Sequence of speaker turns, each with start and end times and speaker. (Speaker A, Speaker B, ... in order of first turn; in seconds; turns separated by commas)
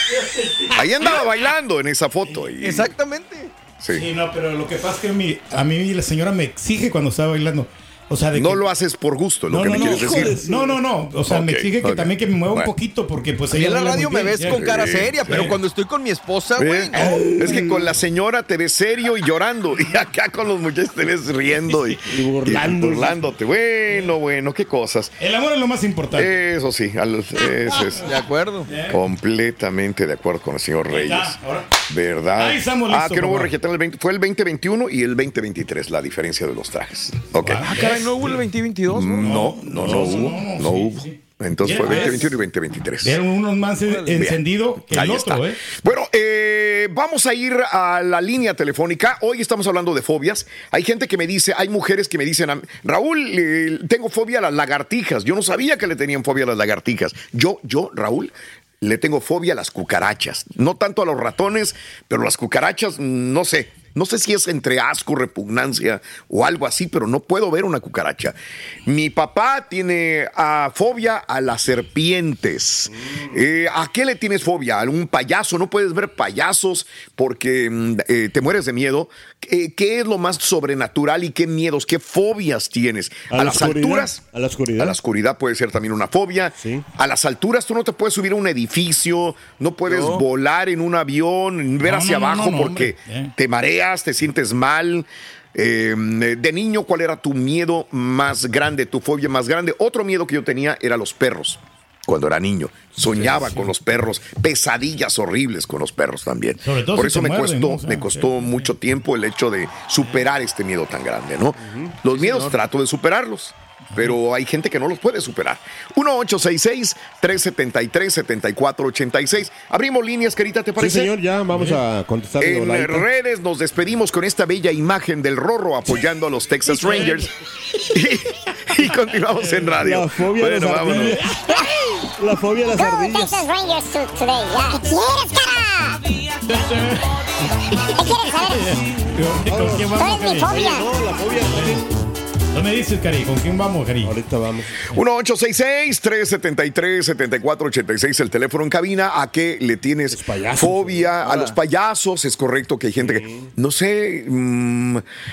Speaker A: 0.1-0.8, Speaker B: 0.7-2.9, Speaker C: 2.6-3.5, Speaker B: 3.8-4.1, Speaker A: 3.9-8.6, Speaker B: 8.3-10.4, Speaker A: 9.5-15.6, Speaker D: 9.6-10.8, Speaker B: 11.3-12.7, Speaker C: 13.5-16.9, Speaker B: 14.5-15.5, Speaker B: 16.6-25.2, Speaker D: 16.9-17.9, Speaker D: 22.1-23.2, Speaker A: 25.2-26.3, Speaker B: 26.1-28.1, Speaker A: 27.7-28.1, Speaker C: 28.1-28.7, Speaker A: 28.7-29.0, Speaker B: 28.9-31.4, Speaker A: 30.9-31.7, Speaker B: 31.9-37.7, Speaker A: 32.4-33.5, Speaker A: 37.4-38.3, Speaker C: 37.6-39.4, Speaker B: 38.9-43.2, Speaker A: 39.2-42.3, Speaker D: 39.9-40.5, Speaker A: 43.0-45.6, Speaker B: 44.1-84.2, Speaker D: 83.3-85.0, Speaker B: 84.8-121.1, Speaker D: 86.6-86.8, Speaker C: 89.8-90.2, Speaker A: 91.8-93.3, Speaker A: 103.2-103.7, Speaker A: 106.6-108.6, Speaker D: 111.6-112.0, Speaker C: 112.1-112.5, Speaker D: 120.8-123.0, Speaker A: 121.5-121.8, Speaker B: 122.4-131.3, Speaker A: 129.4-129.7, Speaker D: 129.8-131.6, Speaker D: 132.2-133.4, Speaker E: 132.7-136.1, Speaker A: 136.4-140.6, Speaker E: 137.8-138.8, Speaker D: 138.9-141.9, Speaker E: 139.9-140.9, Speaker A: 141.4-141.8, Speaker A: 142.5-144.1, Speaker D: 144.0-144.9, Speaker B: 144.9-155.0, Speaker D: 150.1-151.1, Speaker C: 151.2-151.6, Speaker D: 153.0-153.5